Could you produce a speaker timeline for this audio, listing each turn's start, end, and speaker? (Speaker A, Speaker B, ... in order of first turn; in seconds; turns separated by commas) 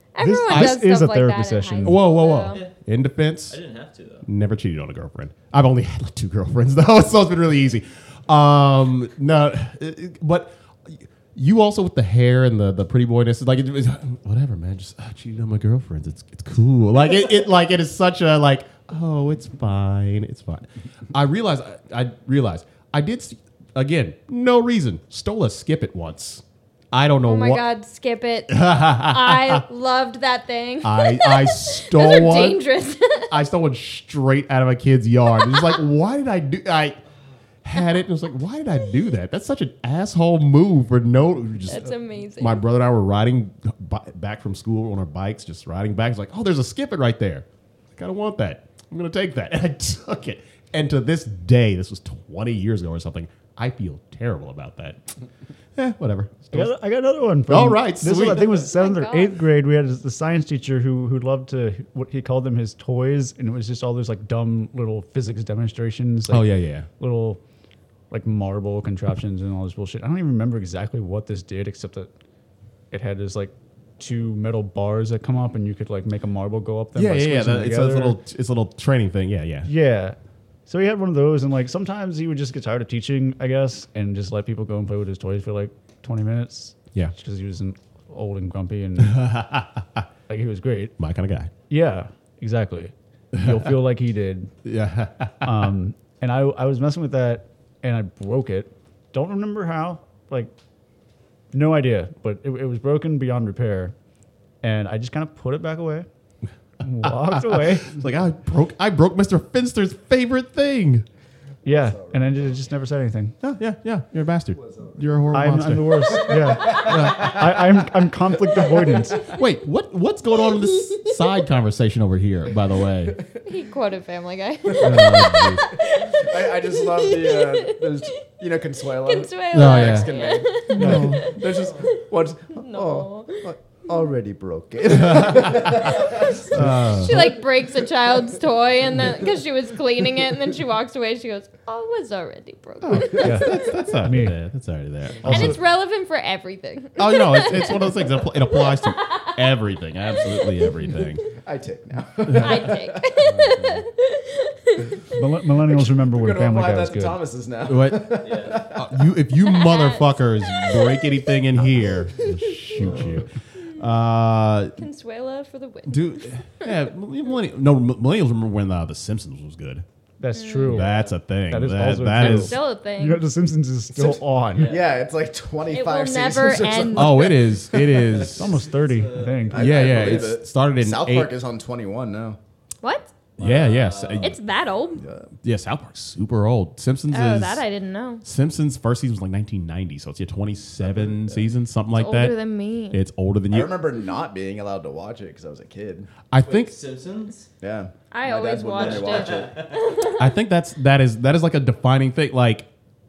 Speaker A: 0.2-2.6, Speaker B: 0.2-2.0, Speaker C: 0.5-0.8, Speaker C: 1.8-3.6, Speaker D: 3.5-4.3, Speaker C: 4.2-27.6, Speaker A: 27.2-33.4, Speaker C: 28.5-29.6, Speaker C: 30.8-32.6, Speaker C: 33.3-37.0, Speaker A: 35.5-35.7, Speaker C: 37.6-55.0, Speaker A: 41.7-42.6, Speaker C: 55.8-56.8, Speaker B: 56.5-67.4, Speaker C: 57.5-58.6, Speaker A: 58.5-59.5, Speaker C: 66.3-66.9, Speaker B: 68.1-72.1, Speaker B: 72.9-78.2, Speaker C: 77.0-79.7, Speaker B: 79.6-89.3, Speaker C: 89.0-90.1, Speaker B: 90.3-91.0, Speaker C: 91.0-91.5, Speaker B: 91.7-94.5, Speaker C: 93.3-93.7, Speaker C: 94.7-95.7, Speaker B: 95.4-100.5, Speaker B: 101.5-104.0, Speaker B: 104.6-106.1, Speaker B: 106.8-108.0, Speaker C: 107.0-111.1, Speaker B: 111.7-113.4, Speaker E: 111.7-112.5, Speaker C: 113.4-116.2, Speaker E: 114.6-115.3, Speaker B: 115.3-119.3, Speaker E: 116.1-117.4, Speaker C: 116.7-117.8, Speaker C: 119.3-123.2, Speaker A: 120.4-121.2, Speaker A: 123.5-128.3, Speaker E: 124.7-137.3, Speaker C: 124.8-125.7, Speaker A: 129.0-132.0, Speaker C: 129.5-131.4, Speaker B: 130.8-131.1, Speaker A: 132.5-133.5, Speaker C: 134.9-136.0, Speaker A: 136.0-143.9, Speaker C: 136.5-137.3, Speaker C: 142.8-145.6, Speaker B: 143.2-144.4, Speaker A: 145.2-149.4, Speaker B: 145.2-145.6, Speaker C: 147.0-151.2, Speaker A: 150.2-151.0, Speaker E: 151.3-153.9, Speaker A: 152.3-155.2, Speaker C: 152.3-152.6, Speaker B: 155.1-157.2, Speaker E: 155.7-159.1, Speaker C: 157.7-164.8, Speaker D: 158.2-158.8, Speaker A: 159.4-161.4, Speaker A: 162.2-162.8, Speaker E: 162.8-163.2, Speaker A: 164.8-166.6, Speaker C: 165.9-169.8, Speaker B: 170.2-174.7, Speaker A: 170.3-170.9, Speaker C: 170.7-172.6, Speaker A: 172.1-173.2, Speaker E: 174.0-178.0, Speaker D: 174.5-175.0, Speaker A: 175.7-177.4, Speaker C: 176.9-178.6, Speaker D: 177.9-180.2, Speaker B: 178.2-179.8, Speaker E: 179.5-182.4, Speaker C: 179.5-181.3, Speaker A: 182.8-183.1, Speaker C: 183.4-184.4, Speaker E: 183.4-183.8, Speaker D: 183.4-184.3, Speaker A: 184.2-185.0, Speaker E: 184.9-185.3, Speaker C: 185.4-187.7, Speaker A: 187.1-188.2, Speaker C: 188.2-192.3, Speaker E: 190.8-191.5, Speaker A: 191.9-193.0, Speaker C: 192.9-193.8, Speaker E: 193.5-196.1, Speaker C: 196.3-196.8, Speaker D: 196.4-197.5, Speaker E: 197.6-199.6, Speaker A: 198.1-200.3, Speaker D: 198.8-200.0, Speaker C: 200.1-202.7